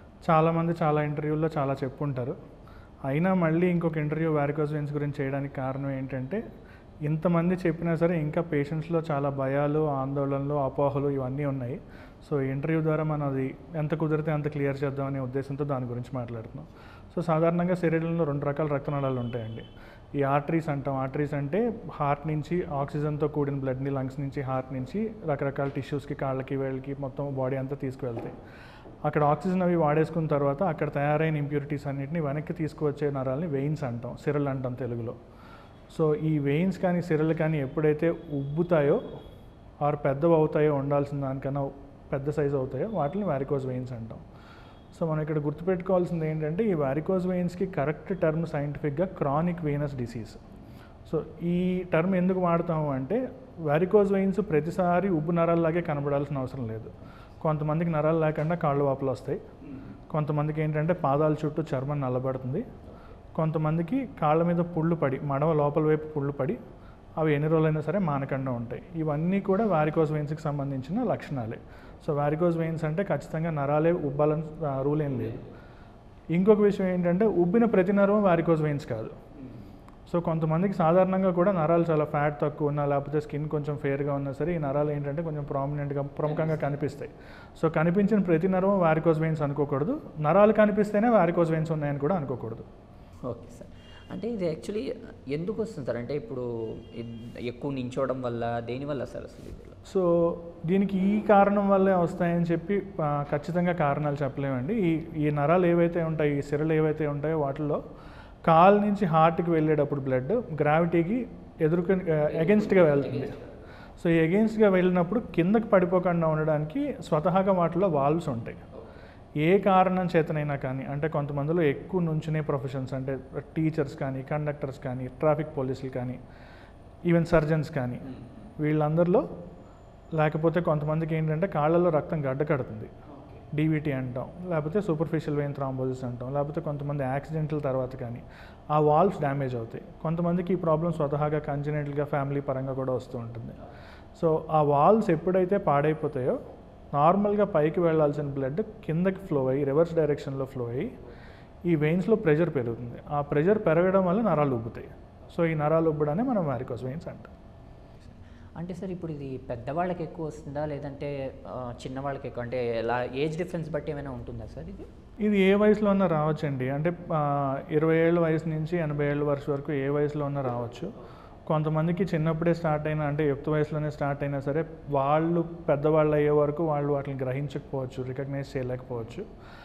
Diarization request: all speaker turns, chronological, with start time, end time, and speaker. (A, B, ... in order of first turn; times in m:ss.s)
0:00.3-0:02.4 A
0:03.1-0:06.4 A
0:07.1-0:19.7 A
0:20.2-0:28.4 A
0:29.1-0:35.2 A
0:35.9-0:39.0 A
0:39.8-0:44.2 A
0:44.9-0:50.4 A
0:51.1-0:59.4 A
1:00.1-1:02.7 A
1:03.4-1:06.6 A
1:07.2-1:15.4 A
1:16.3-1:19.2 A
1:20.1-1:32.6 A
1:26.3-1:26.6 B
1:33.3-1:39.8 B
1:39.9-1:47.8 A
1:48.5-1:53.4 A
1:52.3-1:53.5 B
1:54.0-1:58.6 A
1:59.4-2:06.2 A
2:07.1-2:08.1 A
2:08.6-2:09.2 A
2:10.2-2:12.9 A
2:13.5-2:23.6 A
2:24.2-2:26.4 A
2:27.0-2:31.0 A
2:31.7-2:37.3 A
2:38.6-2:44.9 B
2:45.2-2:50.9 A
2:51.5-2:59.3 A